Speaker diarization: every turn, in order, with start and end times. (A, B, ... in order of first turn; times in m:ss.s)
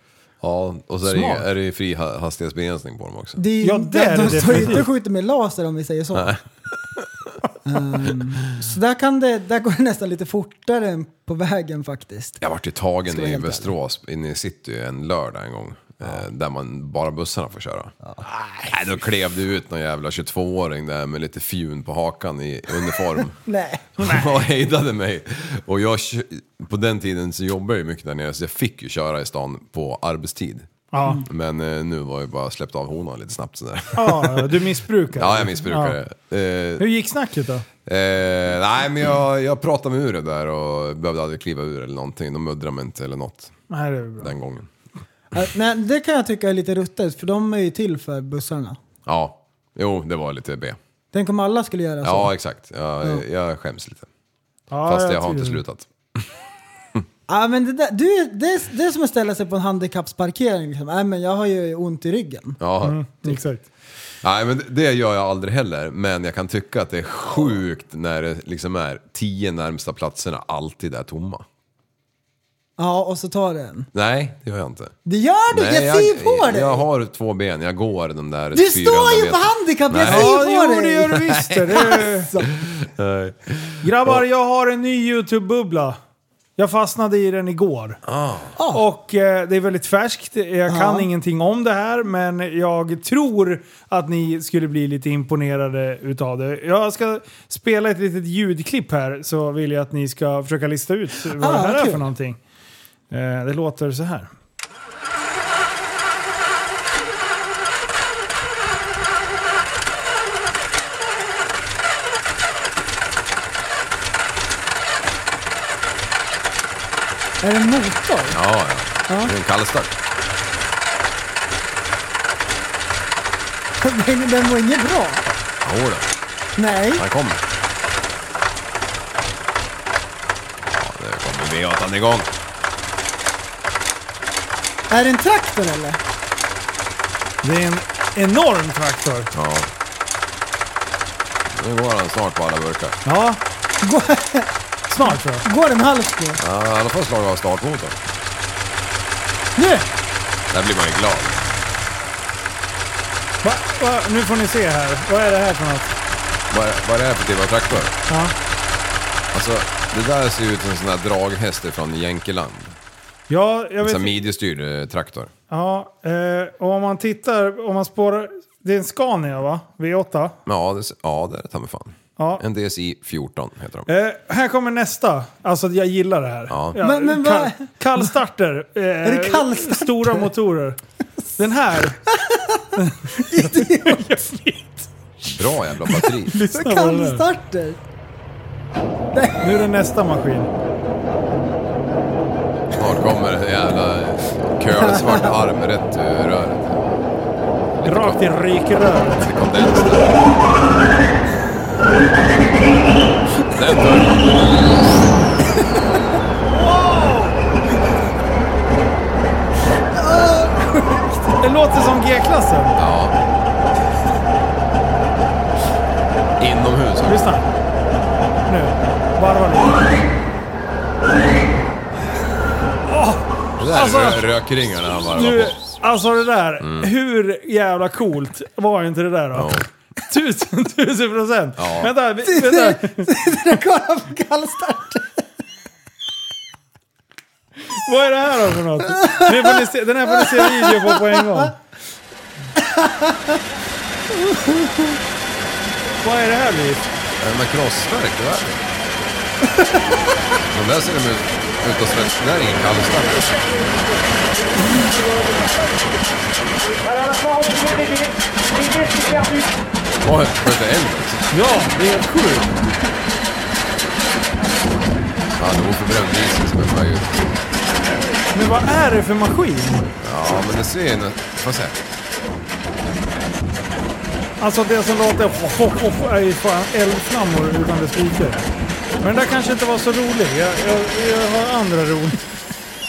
0:00.4-0:03.4 A
0:01.0-0:01.4 B
0:03.4-0:06.4 C
0:03.6-0:04.9 B
0:06.1-0:07.4 A
0:07.6-0:12.4 C
0:12.4-0:17.9 A
0:13.1-0:13.7 C
0:18.4-0:18.7 B
0:18.7-0:23.4 A
0:23.4-0:23.9 C
0:24.0-0:30.7 A
0:24.0-0:24.3 B
0:30.9-0:31.2 B
0:31.2-0:34.5 A
0:33.9-0:36.0 B
0:35.1-0:36.8 A
0:36.8-0:37.6 B
0:37.8-0:43.5 A
0:43.7-0:44.3 B
0:44.2-0:44.7 A
0:45.3-0:48.8 C
0:49.0-0:50.8 A
0:51.1-0:52.3 C
0:52.0-0:54.1 A
0:54.7-0:55.6 B
0:54.8-0:56.3 A
0:57.3-1:02.6 C
1:02.6-1:03.0 A
1:02.8-1:03.6 B
1:04.2-1:11.4 A
1:12.8-1:13.9 C
1:13.9-1:14.9 A
1:15.0-1:16.8 C
1:15.5-1:20.4 A
1:18.5-1:21.1 C
1:20.0-1:22.3 B
1:21.1-1:21.9 A
1:21.7-1:22.5 C
1:22.6-1:24.2 A
1:23.8-1:26.0 B
1:26.6-1:28.0 B
1:28.0-1:28.5 A
1:28.6-1:28.8 C
1:28.7-1:42.4 B
1:30.7-1:31.1 C
1:41.4-1:42.0 C
1:43.1-1:44.3 B
1:57.4-1:58.4 C
1:58.3-2:00.0 A
1:59.1-1:59.3 C
2:03.8-2:05.2 C
2:05.6-2:06.1 A
2:06.6-2:07.0 C
2:06.9-2:07.4 A
2:10.7-2:12.3 A
2:14.9-2:16.0 C
2:17.4-2:19.3 B
2:19.3-2:19.7 A
2:21.5-2:23.0 A
2:23.0-2:23.4 B
2:23.8-2:24.5 C
2:24.9-2:25.4 B
2:25.1-2:26.4 C
2:26.4-2:28.0 A
2:29.6-2:29.8 C
2:30.5-2:31.4 A
2:33.4-2:35.9 B
2:36.5-2:37.9 A
2:38.1-2:38.3 B
2:39.3-2:42.8 A
2:43.3-2:44.2 B
2:43.8-2:45.3 A
2:45.5-2:50.4 B
2:50.4-2:53.9 A
2:52.2-2:52.4 B
2:53.9-3:00.8 B
2:56.5-2:56.8 A
2:56.8-2:58.1 C
2:59.0-3:00.2 C
3:01.4-3:02.1 B
3:02.1-3:04.0 C
3:02.8-3:05.3 B
3:05.2-3:06.4 A
3:05.9-3:07.2 B
3:06.5-3:07.8 C
3:09.1-3:09.6 C
3:09.4-3:10.5 B
3:12.7-3:17.0 A
3:14.8-3:15.3 C
3:17.8-3:18.3 A
3:17.8-3:19.2 B
3:19.2-3:20.2 A
3:23.4-3:24.4 A
3:26.5-3:27.4 B
3:29.9-3:31.4 C
3:31.4-3:32.8 B
3:32.8-3:33.2 A
3:36.4-3:37.3 A
3:37.0-3:37.5 B
3:38.5-3:39.9 B
3:42.9-3:44.3 B
3:43.6-3:45.6 A
3:45.1-3:53.1 B
3:46.6-3:46.9 A
3:49.3-3:49.7 A
3:51.6-3:51.9 A
3:52.2-3:55.2 C
3:57.7-4:01.6 B
3:59.0-3:59.6 C
4:00.2-4:01.2 C
4:02.6-4:03.4 C
4:04.2-4:05.0 C
4:06.0-4:06.8 B
4:07.2-4:08.7 A
4:10.5-4:13.4 A
4:20.0-4:21.3 A
4:21.3-4:22.5 B
4:25.4-4:27.3 A
4:28.3-4:29.9 B
4:30.0-4:31.8 A
4:34.4-4:38.4 B
4:39.0-4:42.3 B